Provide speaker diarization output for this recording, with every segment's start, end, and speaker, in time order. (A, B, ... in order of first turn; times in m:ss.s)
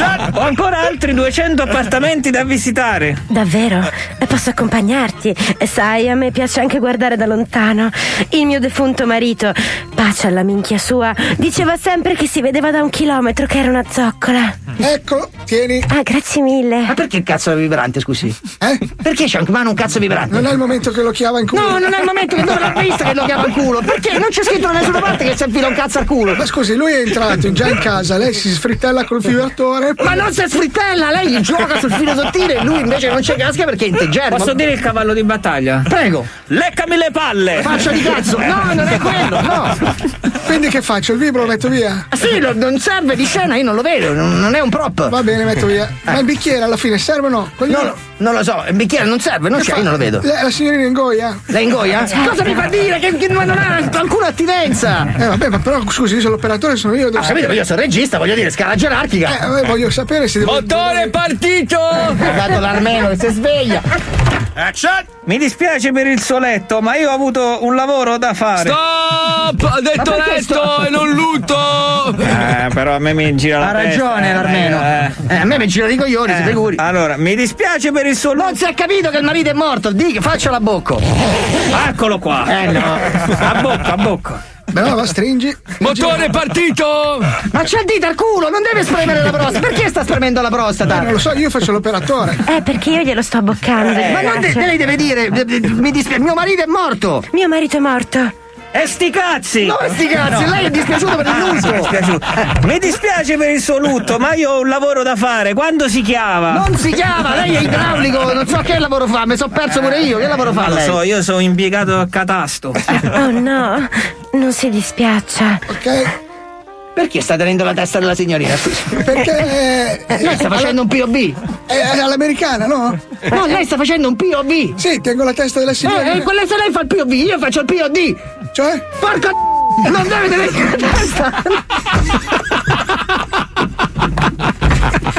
0:00.2-0:03.2 A
0:03.3-0:14.6 B
0:14.8-0:15.9 C
0:15.9-0:17.0 B
0:17.2-0:18.3 D
0:18.6-0:18.9 C
0:19.1-0:20.3 D
0:20.3-0:22.2 C
0:22.5-0:23.8 D
0:24.5-0:25.0 D
0:26.3-0:30.2 C
0:31.4-0:34.5 D
0:34.3-0:35.9 A
0:35.9-0:36.3 D
0:36.5-0:39.3 A
0:37.6-0:39.7 D
0:40.4-0:42.0 C
0:42.1-0:45.1 D
0:45.1-0:47.9 C
0:47.7-0:50.2 D
0:49.5-0:51.4 C
0:51.5-0:55.1 D
0:55.2-0:57.5 C
0:57.2-0:59.4 D
0:59.2-1:01.1 C
1:00.4-1:02.4 E
1:02.2-1:03.8 D
1:05.2-1:08.8 A
1:08.6-1:12.4 E
1:10.0-1:10.7 D
1:12.2-1:15.2 A
1:13.6-1:16.8 D
1:16.3-1:18.6 A
1:18.4-1:21.0 D
1:21.7-1:24.4 A
1:22.5-1:23.9 D
1:24.7-1:26.2 C
1:25.8-1:27.4 E
1:27.5-1:31.1 D
1:30.9-1:32.4 C
1:32.5-1:34.6 B
1:33.9-1:37.2 D
1:37.3-1:38.3 B
1:38.7-1:40.6 A
1:39.6-1:41.9 D
1:41.2-1:46.8 A
1:46.5-1:51.0 D
1:49.7-1:53.1 A
1:53.1-1:55.6 B
1:55.7-1:56.1 C
1:57.1-1:58.4 D
1:58.9-2:00.8 C
2:00.2-2:01.3 D
2:01.7-2:03.0 C
2:03.4-2:03.7 D
2:04.8-2:06.3 C
2:08.5-2:08.9 C
2:09.9-2:10.9 D